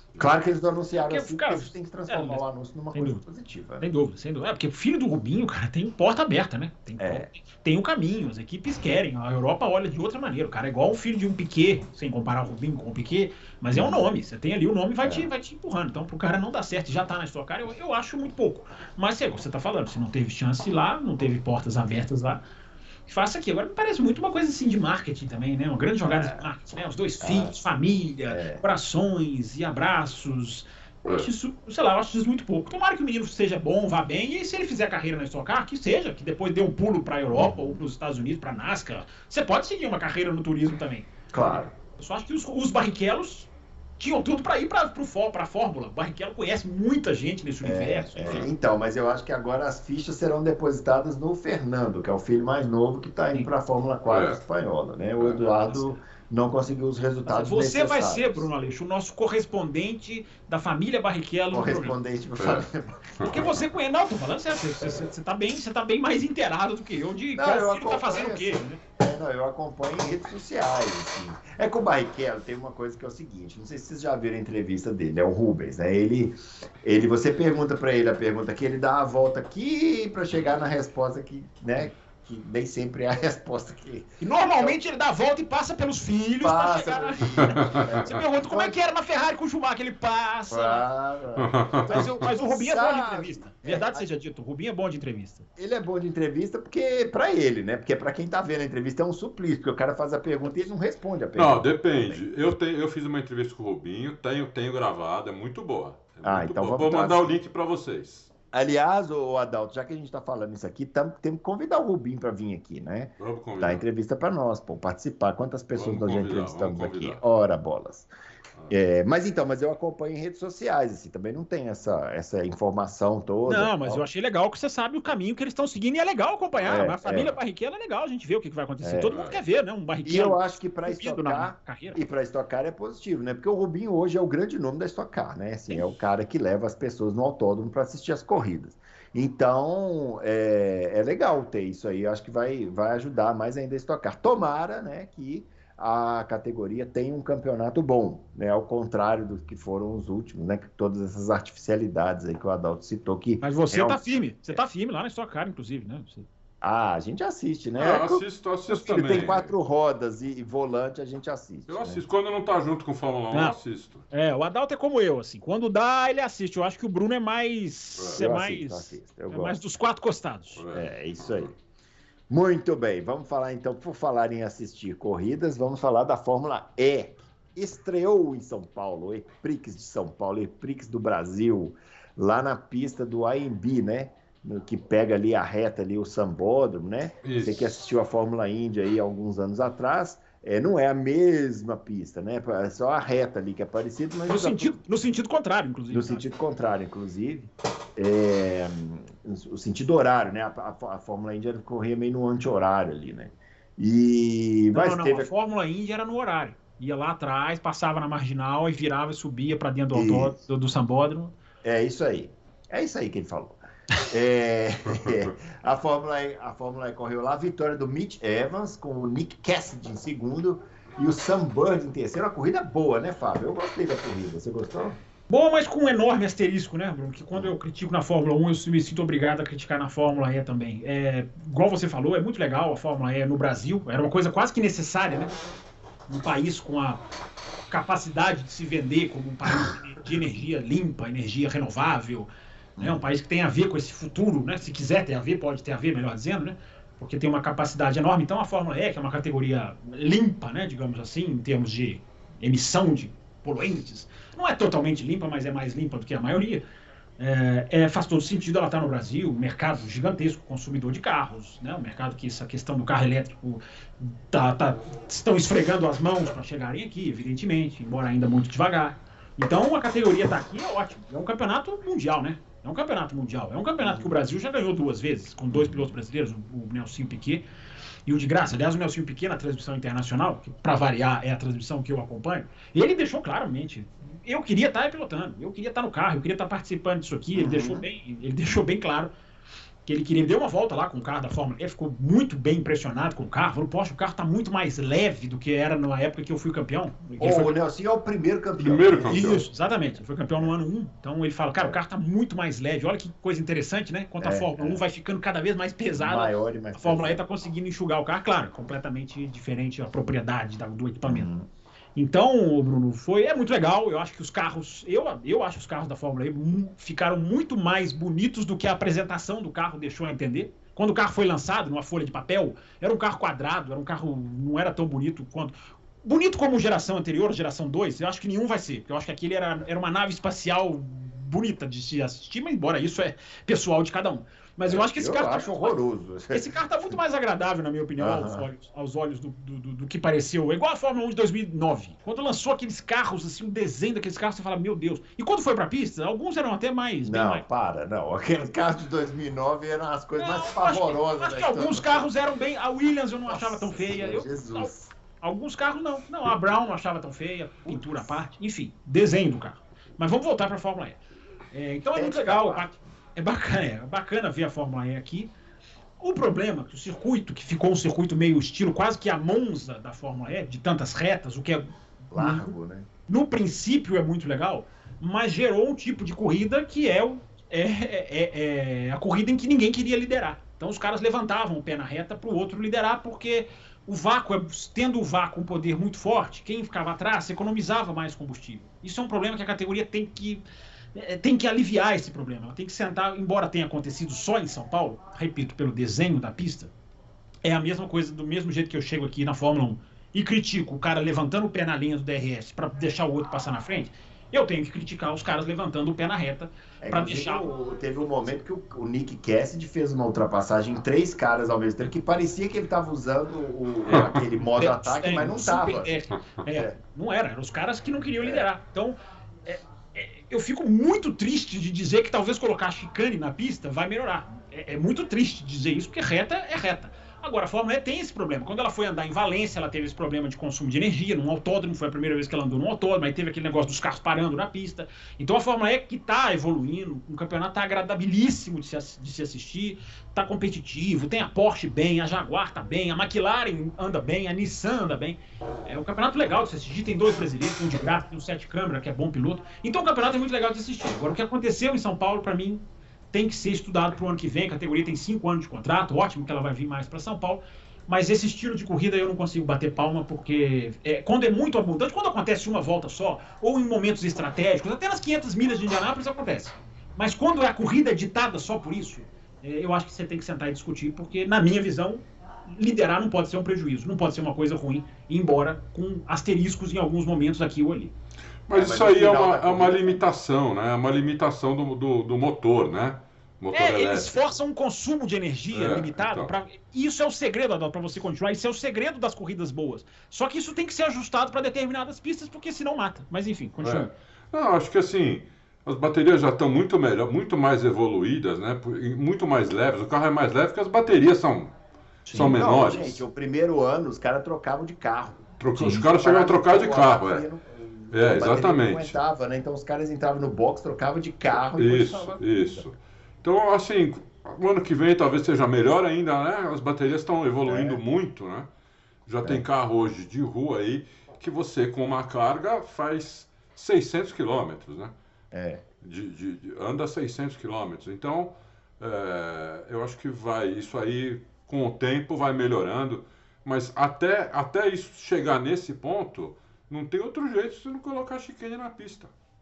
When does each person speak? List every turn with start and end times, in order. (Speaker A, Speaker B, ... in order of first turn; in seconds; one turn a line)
Speaker A: 0.2-3.9
Speaker B: 1.0-2.4
Speaker B: 2.9-3.2
Speaker B: 3.8-22.4
Speaker A: 7.0-7.3
Speaker A: 13.7-14.1
Speaker A: 15.0-15.3
Speaker B: 23.1-48.5
Speaker A: 26.1-26.4
Speaker A: 27.2-27.6
Speaker A: 28.3-28.6
Speaker A: 37.3-37.8
Speaker A: 41.3-41.7
Speaker A: 47.6-58.5
Speaker C: 54.1-54.4
Speaker B: 57.3-62.0
Speaker A: 61.5-63.4
Speaker C: 62.4-62.6
Speaker C: 63.2-63.5
Speaker B: 63.2-68.8
Speaker A: 67.4-84.8
Speaker B: 84.2-90.8
Speaker A: 86.4-88.8
Speaker C: 87.4-88.0
Speaker A: 90.5-94.0
Speaker C: 91.4-92.1
Speaker B: 91.9-95.5
Speaker A: 95.6-102.2
Speaker C: 101.4-108.3
Speaker A: 106.2-107.4
Speaker A: 108.5-118.1
Speaker C: 113.2-113.8
Speaker C: 115.7-117.2
Speaker A: 118.7-124.0
Speaker B: 123.5-132.0
Speaker A: 126.6-127.4
Speaker A: 128.8-129.2
Speaker C: 129.1-129.4
Speaker A: 130.1-154.6
Speaker B: 153.4-156.3
Speaker A: 156.6-162.0
Speaker C: 157.8-159.5
Speaker C: 161.7-164.1
Speaker B: 164.1-170.6
Speaker A: 168.2-169.6
Speaker C: 170.6-171.5
Speaker A: 170.7-171.5
Speaker A: 172.3-194.8
Speaker C: 187.2-187.5
Speaker B: 194.3-196.3
Speaker A: 195.9-205.3
Speaker B: 204.7-211.3
Speaker A: 209.9-210.3
Speaker A: 211.6-225.0
Speaker B: 225.3-235.4
Speaker B: 236.1-237.0
Speaker B: 237.7-242.3
Speaker B: 242.8-256.6
Speaker B: 257.2-277.4
Speaker A: 273.8-274.1
Speaker A: 275.5-275.9
Speaker B: 278.1-289.1
Speaker A: 287.4-287.9
Speaker B: 289.9-297.6
Speaker A: 297.2-299.5
Speaker C: 298.6-299.2
Speaker B: 299.1-311.3
Speaker A: 304.2-304.8
Speaker A: 306.0-307.2
Speaker A: 311.1-311.5
Speaker B: 312.0-335.8
Speaker A: 334.7-336.5
Speaker B: 336.3-347.4
Speaker A: 338.0-338.5
Speaker A: 347.0-352.1
Speaker B: 350.2-361.0
Speaker A: 353.3-354.9
Speaker B: 361.5-365.3
Speaker A: 361.9-362.9
Speaker B: 366.0-372.5
Speaker A: 372.1-372.9
Speaker B: 373.1-390.4
Speaker B: 390.9-396.7
Speaker B: 397.4-407.5
Speaker A: 406.8-416.0
Speaker C: 413.9-414.3
Speaker B: 414.6-477.9
Speaker A: 418.2-418.5
Speaker C: 478.5-484.1
Speaker A: 478.5-480.0
Speaker B: 483.5-493.9
Speaker C: 485.5-486.3
Speaker C: 493.6-501.5
Speaker C: 502.1-503.0
Speaker B: 502.1-502.4
Speaker A: 502.1-512.7
Speaker C: 505.4-507.3
Speaker B: 505.6-505.8
Speaker C: 507.9-509.0
Speaker C: 511.5-518.5
Speaker A: 517.5-517.8
Speaker C: 519.1-524.9
Speaker A: 525.3-525.6
Speaker C: 525.8-539.1